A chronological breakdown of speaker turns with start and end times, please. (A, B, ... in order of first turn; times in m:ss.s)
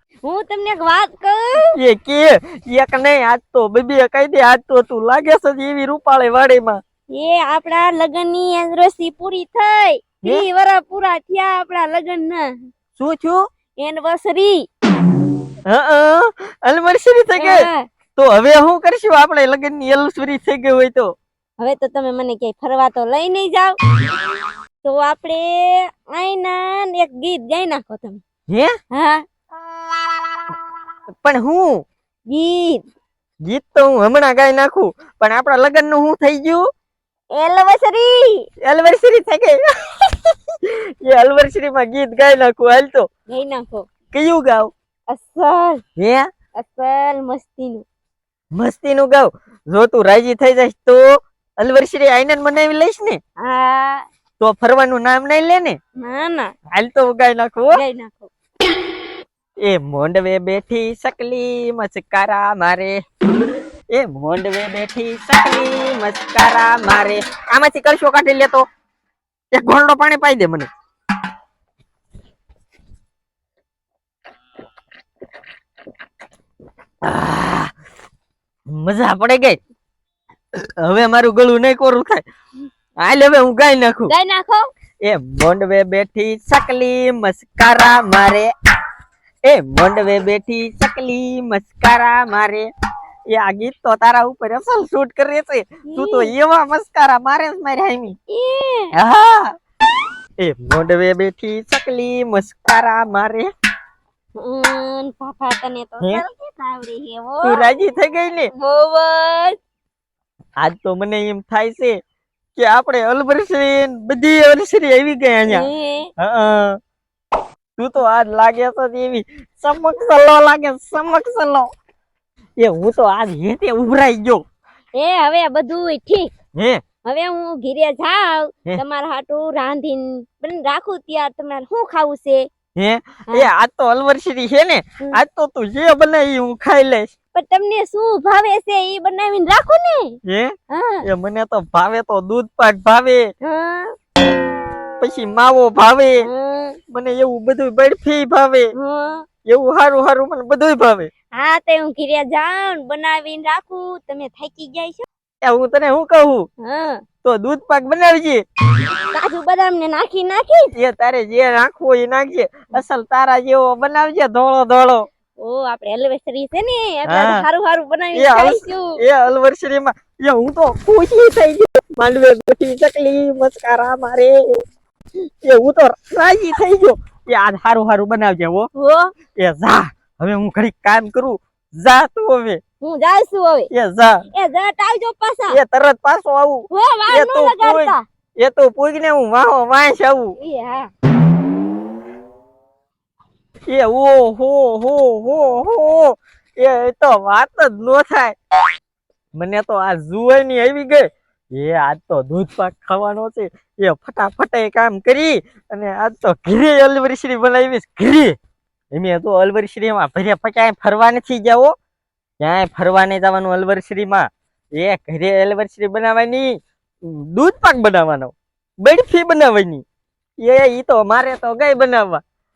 0:00.2-0:01.7 A
0:01.7-0:06.8 B
0:07.1-0:12.5 A
0:13.0-0:13.4 B
0:13.8-0:14.6 A
0:15.7-0:17.6 B
0:17.4-0:17.8 A
0:18.2-0:21.1 B
0:21.6-0:23.8 A
0:24.8-0:28.2 A
0:28.5-0:28.8 B
0:28.9-0:29.2 A
0:31.2-0:31.8 B
0:32.3-0:32.8 A
0:33.4-0:36.7 B
0:37.3-0:38.4 A
0:38.6-0:43.1 B
0:43.3-0:43.8 A
0:44.1-0:44.7 B
0:45.1-0:45.8 A
0:46.0-0:46.3 B
0:46.6-0:47.8 A
0:48.5-0:53.2 B
0:53.4-0:54.0 A
0:54.4-0:55.8 B
0:56.0-0:56.5 A
0:56.7-0:57.8 B
0:57.7-0:58.3 A
0:59.6-1:03.0 B
1:03.9-1:08.6 B
1:09.5-1:10.7 B
1:17.0-1:17.7 B
1:18.7-1:19.6 B
1:20.6-1:22.2 B
1:23.0-1:24.1 B
1:24.1-1:24.7 A
1:25.0-1:28.5 B
1:29.4-1:32.7 B
1:33.3-1:38.2 B
1:35.9-1:36.3 A
1:38.3-1:38.9 A
1:38.9-1:39.5 B
1:40.4-1:43.5 B
1:44.4-1:47.8 A
1:47.4-1:48.5 B
1:48.5-1:49.6 A
1:50.6-1:52.0 B
1:52.6-1:56.8 B
1:55.5-1:56.1 A
1:57.8-2:01.7 B
2:02.6-2:04.4 B
2:05.0-2:06.3 A
2:06.5-2:06.8 B
2:07.0-2:12.5 A
2:12.8-2:17.1 B
2:17.3-2:20.1 A
2:20.2-2:23.3 B
2:20.7-2:21.0 A
2:23.4-2:23.9 A
2:25.0-2:26.3 B
2:26.2-2:26.8 A
2:26.9-2:28.7 B
2:28.8-2:29.2 A
2:29.4-2:31.1 B
2:31.3-2:35.0 A
2:35.4-2:36.5 B
2:36.6-2:37.0 A
2:37.2-2:38.4 B
2:39.1-2:40.7 A
2:40.7-2:45.1 B
2:45.4-2:49.0 A
2:47.1-2:47.4 B
2:48.1-2:54.6 B
2:55.4-2:58.7 B
2:58.8-2:59.1 A
2:59.4-3:02.6 B
3:02.8-3:03.7 A
3:03.7-3:04.2 B
3:04.3-3:05.6 A
3:05.5-3:10.4 B
3:06.7-3:08.0 A
3:10.4-3:10.9 A
3:13.7-3:18.4 B
3:19.3-3:28.4 B
3:28.9-3:31.7 B
3:32.4-3:39.8 B
3:40.4-3:42.2 B